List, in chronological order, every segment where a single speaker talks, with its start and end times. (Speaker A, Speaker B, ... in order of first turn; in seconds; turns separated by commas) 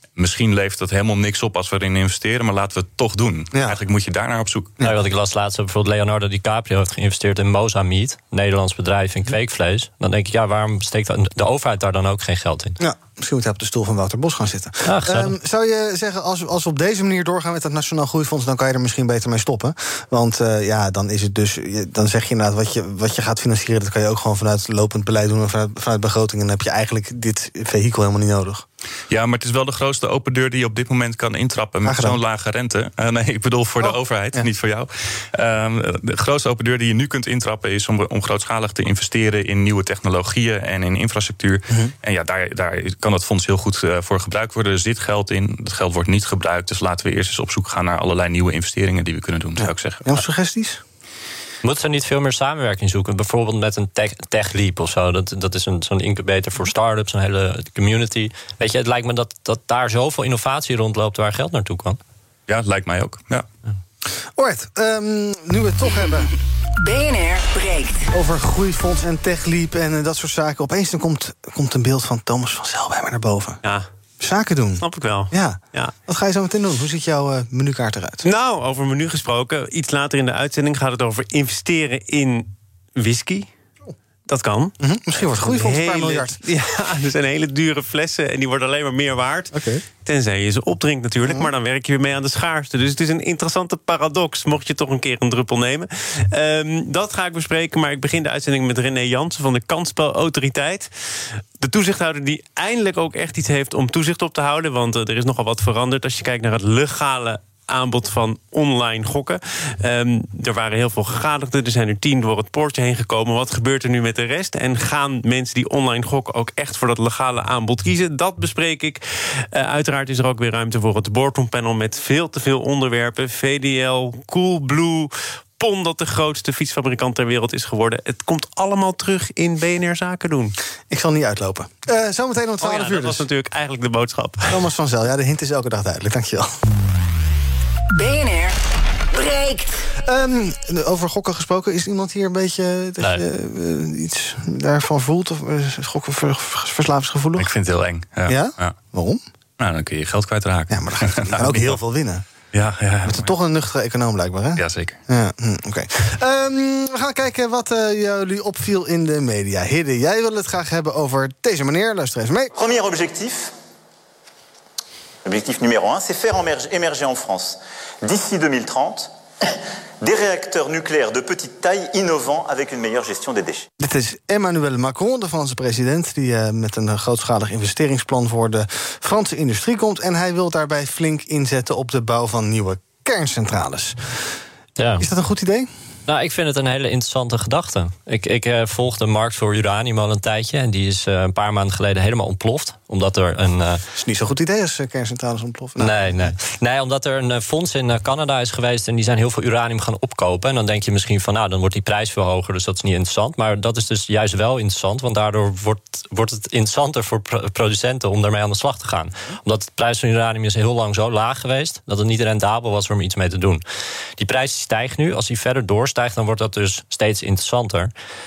Speaker A: 0.2-4.8, Speaker B: 3.5-3.8, Speaker C: 4.8-12.8, Speaker B: 12.8-28.6, Speaker C: 14.8-15.3, Speaker A: 29.1-50.2, Speaker B: 31.9-32.2, Speaker B: 33.8-34.5, Speaker B: 49.6-50.8, Speaker C: 51.6-62.0, Speaker A: 62.5-63.5, Speaker B: 64.4-66.3, Speaker D: 66.8-68.1, Speaker B: 68.1-73.6, Speaker B: 74.2-78.2, Speaker E: 74.8-76.0, Speaker E: 78.2-83.5, Speaker E: 84.3-100.9, Speaker B: 84.8-86.5, Speaker B: 89.5-89.8, Speaker B: 91.2-91.5, Speaker E: 101.6-130.6, Speaker B: 130.9-133.3, Speaker E: 132.6-134.6, Speaker B: 134.5-136.5, Speaker D: 137.9-138.6, Speaker D: 139.1-139.9, Speaker B: 140.0-147.5, Speaker A: 147.4-148.8, Speaker B: 148.3-149.2, Speaker A: 149.6-151.8, Speaker B: 150.7-152.2, Speaker A: 152.5-153.3, Speaker B: 153.0-162.5, Speaker A: 154.6-155.0, Speaker F: 162.5-163.5, Speaker F: 165.2-169.1, Speaker F: 170.0-173.7, Speaker B: 173.8-184.2, Speaker C: 184.8-185.1, Speaker B: 185.0-185.7, Speaker C: 186.1-193.8, Speaker B: 193.9-196.3, Speaker C: 195.8-213.6, Speaker C: 214.2-217.9